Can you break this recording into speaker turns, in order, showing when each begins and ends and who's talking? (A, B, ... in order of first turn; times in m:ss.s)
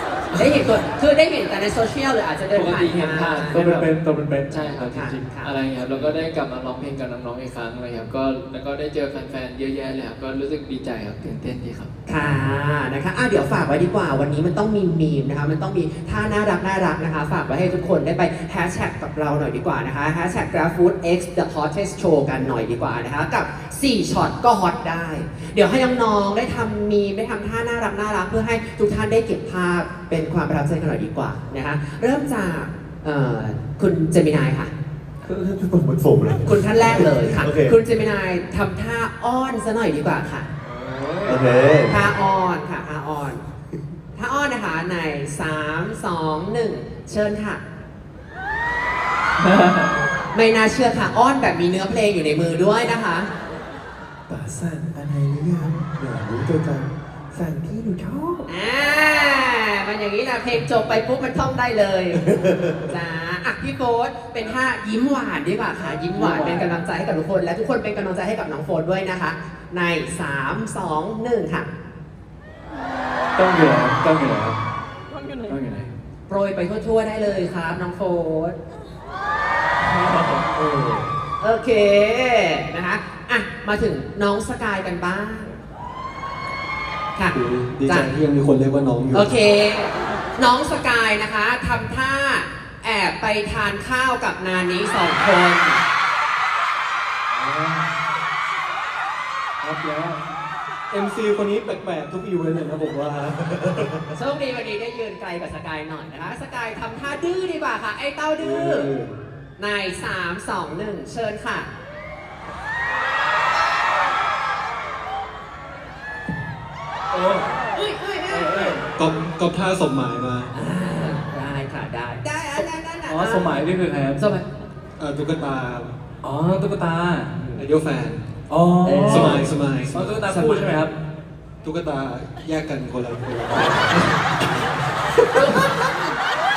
0:00.3-0:03.8 A
0:02.5-0:03.7 B
0:03.5-0:05.3 C
0:04.5-0:11.9 B
0:04.9-0:05.5 A
0:12.1-0:34.7 A
0:35.2-0:37.8 D
0:36.4-0:40.5 A
0:40.6-0:41.5 B
0:41.2-0:42.0 D
0:41.8-0:43.4 A
0:44.1-0:47.6 A
0:49.4-0:50.0 B
0:50.3-0:53.3 A
0:54.3-0:58.5 D
0:58.5-1:02.2 A
1:02.1-1:02.9 D
1:02.9-1:11.7 A
1:06.1-1:06.7 C
1:13.4-1:14.6 C
1:15.4-1:15.9 C
1:16.3-1:18.6 A
1:19.9-1:20.4 B
1:20.5-1:25.5 A
1:27.2-1:28.1 A
1:27.3-1:29.3 E
1:29.1-1:35.8 A
1:39.6-1:40.2 E
1:40.9-1:43.4 E
1:43.4-1:44.1 D
1:44.1-1:48.9 A
1:48.4-1:49.1 E
1:49.6-1:51.7 A
1:57.1-1:57.4 C
1:57.7-1:58.8 A
1:58.3-1:58.7 C
1:59.0-2:00.5 E
2:00.5-2:04.5 A
2:03.1-2:04.2 C
2:05.0-2:05.9 E
2:06.2-2:07.5 C
2:07.4-2:07.6 A
2:07.5-2:08.2 E
2:08.5-2:10.9 C
2:08.8-2:09.5 A
2:09.1-2:10.6 E
2:11.6-2:14.1 E
2:15.2-2:15.8 A